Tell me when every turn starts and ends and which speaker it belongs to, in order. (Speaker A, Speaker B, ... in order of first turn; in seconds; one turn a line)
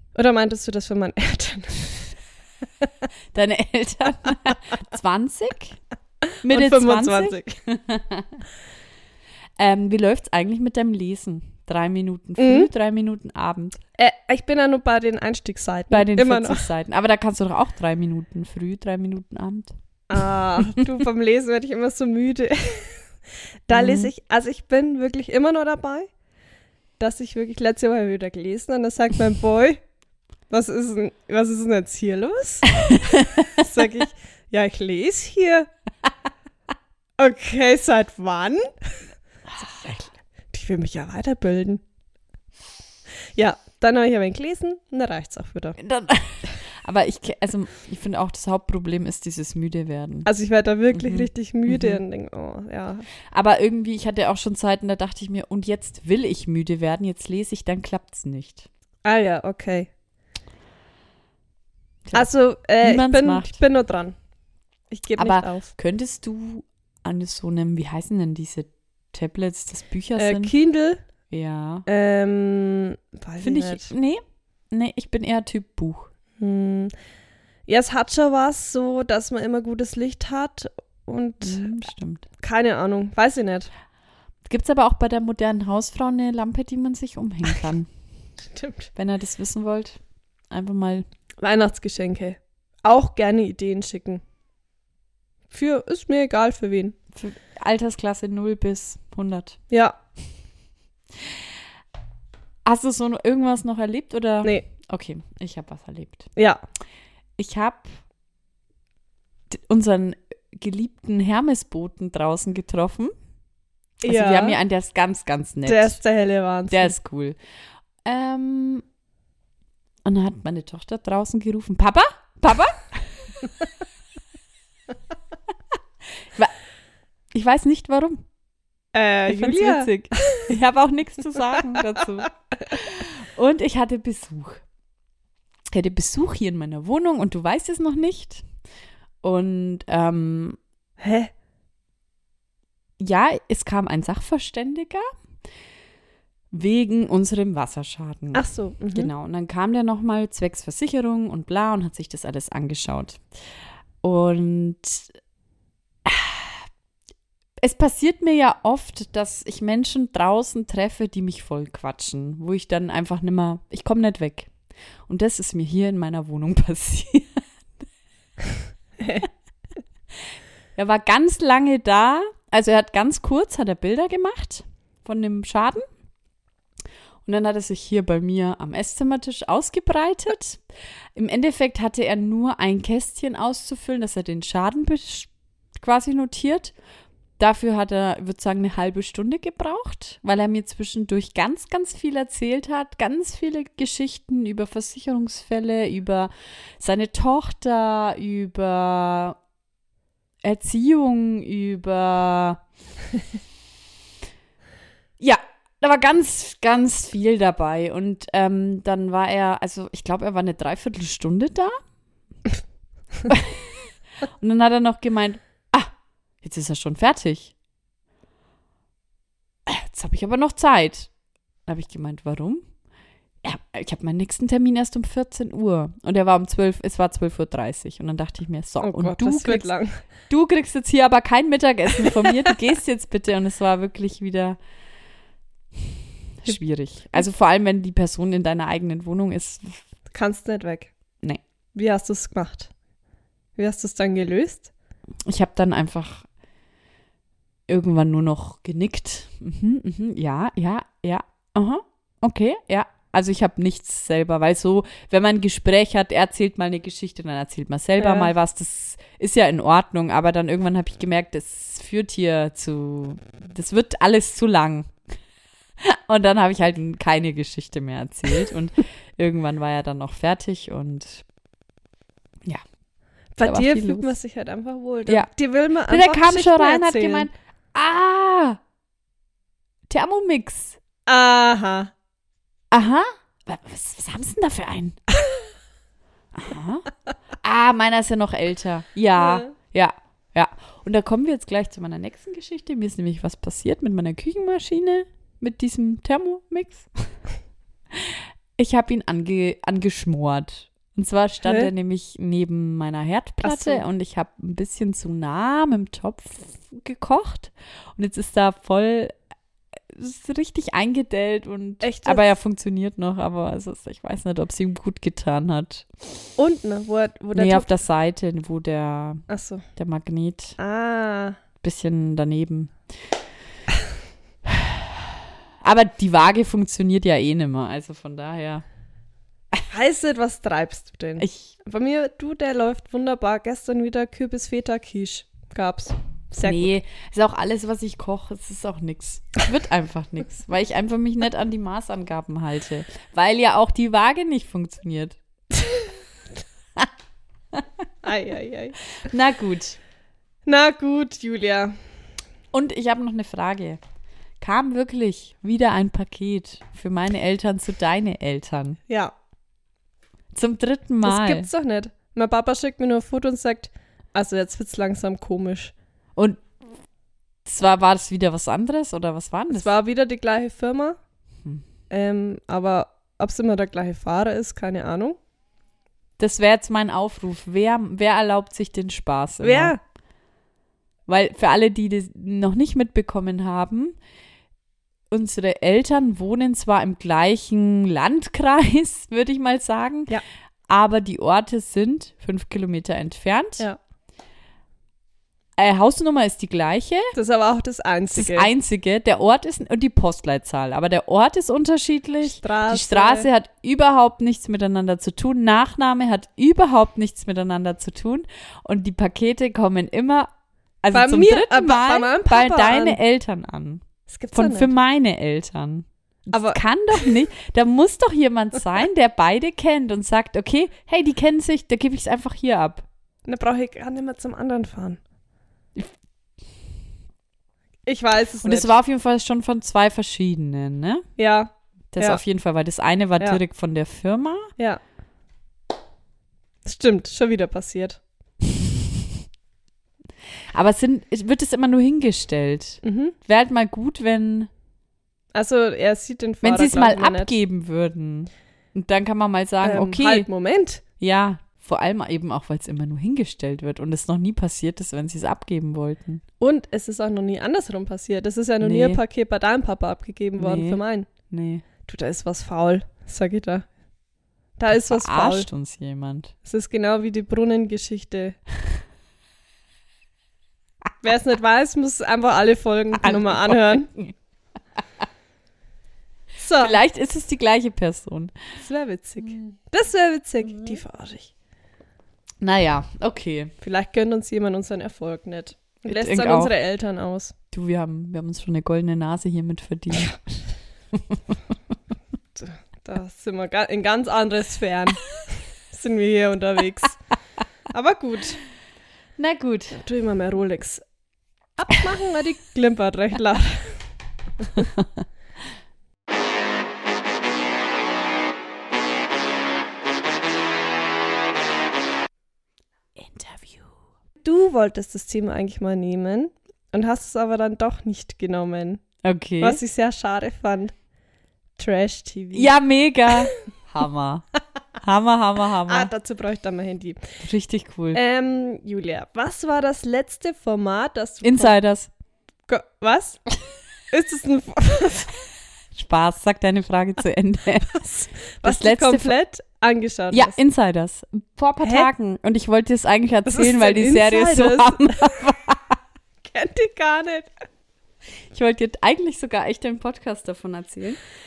Speaker A: 0.1-2.1
Speaker B: 3.3-5.8
Speaker B: 6.4-8.4
Speaker A: 6.5-7.5
Speaker B: 9.6-13.8
Speaker A: 12.4-12.7
Speaker A: 14.0-16.6
Speaker B: 15.9-19.7
Speaker A: 20.1-23.0
Speaker A: 23.7-26.1
Speaker B: 23.7-24.1
Speaker A: 27.0-29.8
Speaker A: 30.5-35.7
Speaker B: 32.9-33.7
Speaker A: 37.2-38.7
Speaker A: 39.6-41.8
Speaker A: 43.3-45.8
Speaker B: 45.8-50.3
Speaker A: 50.2-53.0
Speaker B: 50.9-52.0
Speaker B: 53.3-58.7
Speaker A: 59.0-59.9
Speaker A: 62.1-64.2
Speaker B: 62.8-63.6
Speaker A: 64.9-65.7
Speaker B: 65.2-70.5
Speaker A: 70.2-71.0
Speaker B: 71.3-71.8
Speaker A: 71.9-73.9
Speaker B: 73.4-76.1
Speaker A: 76.4-76.9
Speaker A: 77.7-81.7
Speaker B: 81.4-82.2
Speaker A: 82.4-83.7
Speaker B: 84.5-87.9
Speaker A: 88.5-88.9
Speaker B: 88.9-90.0
Speaker B: 90.5-91.0
Speaker A: 91.4-94.2
Speaker A: 95.5-97.0
Speaker B: 97.1-99.6
Speaker A: 99.7-100.0
Speaker B: 102.7-106.3
Speaker A: 106.3-106.6
Speaker B: 107.4-108.0
Speaker B: 109.5-113.1
Speaker A: 114.0-114.5
Speaker B: 114.0-116.0
Speaker A: 115.7-116.9
Speaker B: 116.7-117.4
Speaker B: 118.0-118.8
Speaker B: 120.0-123.3
Speaker B: 127.3-128.2
Speaker A: 128.9-130.5
Speaker B: 129.3-134.6
Speaker B: 135.7-138.4
Speaker B: 139.2-140.6
Speaker A: 141.0-141.3
Speaker B: 143.0-145.1
Speaker B: 146.5-153.2
Speaker A: 148.3-149.1
Speaker B: 154.0-155.1
Speaker B: 156.0-156.6
Speaker B: 157.6-164.5
Speaker B: 165.1-167.4
Speaker A: 169.0-169.2
Speaker B: 170.8-175.8
Speaker B: 177.2-180.6
Speaker B: 181.1-186.7
Speaker B: 187.4-199.4
Speaker B: 200.4-202.6
Speaker B: 205.2-211.8
Speaker B: 213.2-213.7
Speaker B: 214.4-215.9
Speaker B: 216.4-217.5
Speaker B: 219.7-221.1
Speaker B: 221.7-222.6
Speaker B: 223.4-229.7
Speaker A: 228.8-230.0
Speaker B: 230.3-234.6
Speaker B: 236.4-239.8
Speaker A: 240.1-240.9
Speaker A: 241.7-242.7
Speaker A: 243.6-244.7
Speaker B: 245.3-246.2
Speaker B: 247.7-264.9
Speaker A: 258.0-258.3
Speaker B: 265.8-271.2
Speaker A: 273.4-277.3
Speaker B: 273.4-274.1
Speaker B: 275.9-278.6
Speaker B: 279.9-280.8
Speaker A: 281.1-281.9
Speaker B: 282.7-285.0
Speaker B: 286.3-286.9
Speaker B: 287.4-296.9
Speaker A: 289.2-289.5
Speaker B: 297.9-309.1
Speaker A: 301.4-301.7
Speaker A: 303.4-303.8
Speaker B: 309.9-315.9
Speaker A: 311.8-312.2
Speaker A: 316.4-317.7
Speaker B: 317.3-319.2
Speaker A: 319.3-319.6
Speaker B: 319.8-320.6
Speaker A: 320.6-321.4
Speaker B: 321.6-322.7
Speaker B: 324.4-325.1
Speaker B: 325.6-328.6
Speaker A: 329.7-336.7
Speaker B: 331.2-331.5
Speaker B: 336.4-345.2
Speaker A: 345.6-345.9
Speaker A: 348.0-348.8
Speaker B: 349.0-349.8
Speaker A: 350.4-351.7
Speaker B: 352.5-353.8
Speaker B: 354.4-358.8
Speaker A: 358.9-359.1
Speaker B: 360.3-361.5
Speaker A: 361.0-365.7
Speaker B: 366.1-366.4
Speaker B: 367.4-369.7
Speaker A: 369.5-371.0
Speaker A: 371.9-375.2
Speaker B: 376.2-379.7
Speaker A: 379.4-379.8
Speaker B: 381.1-383.9
Speaker B: 385.1-393.7
Speaker B: 395.6-397.1
Speaker A: 397.1-398.5
Speaker B: 398.1-410.3
Speaker A: 402.2-403.3
Speaker B: 410.8-422.9
Speaker A: 410.9-413.0
Speaker A: 414.1-414.7
Speaker A: 416.3-417.1
Speaker A: 423.2-425.0
Speaker A: 427.9-428.7
Speaker B: 428.4-431.0
Speaker A: 431.2-432.2
Speaker B: 431.9-434.5
Speaker A: 436.6-438.0
Speaker B: 440.5-444.5
Speaker A: 442.8-443.1
Speaker A: 445.3-447.3
Speaker B: 446.4-450.3
Speaker A: 449.6-450.8
Speaker B: 451.0-456.2
Speaker A: 456.4-461.1
Speaker B: 458.6-459.0
Speaker B: 460.4-461.6
Speaker A: 461.9-463.6
Speaker A: 464.6-465.5
Speaker B: 464.7-466.3
Speaker A: 466.4-468.4
Speaker A: 471.0-473.9
Speaker B: 473.0-474.1
Speaker A: 476.4-476.8
Speaker B: 476.6-478.3
Speaker A: 478.6-481.3
Speaker B: 479.2-479.5
Speaker B: 482.4-483.5
Speaker A: 483.6-487.3
Speaker B: 485.9-486.5
Speaker B: 487.5-490.2
Speaker B: 490.9-491.4
Speaker A: 492.3-495.2
Speaker A: 495.7-497.0
Speaker A: 497.7-498.4
Speaker B: 499.2-499.8
Speaker A: 499.7-500.8
Speaker A: 501.6-503.8
Speaker B: 504.6-504.9
Speaker B: 513.0-513.7
Speaker A: 514.2-518.8
Speaker B: 519.0-519.6
Speaker A: 519.4-520.7
Speaker A: 521.6-522.5
Speaker B: 522.3-524.2
Speaker B: 524.8-525.9
Speaker A: 525.7-527.0
Speaker B: 527.2-528.0
Speaker A: 527.9-531.5
Speaker B: 531.2-531.9
Speaker A: 532.5-533.2
Speaker A: 533.9-535.1
Speaker B: 535.7-539.1
Speaker A: 538.4-540.4
Speaker B: 540.1-545.8
Speaker A: 541.6-541.9
Speaker A: 543.2-545.2
Speaker A: 546.2-547.3
Speaker B: 548.3-551.0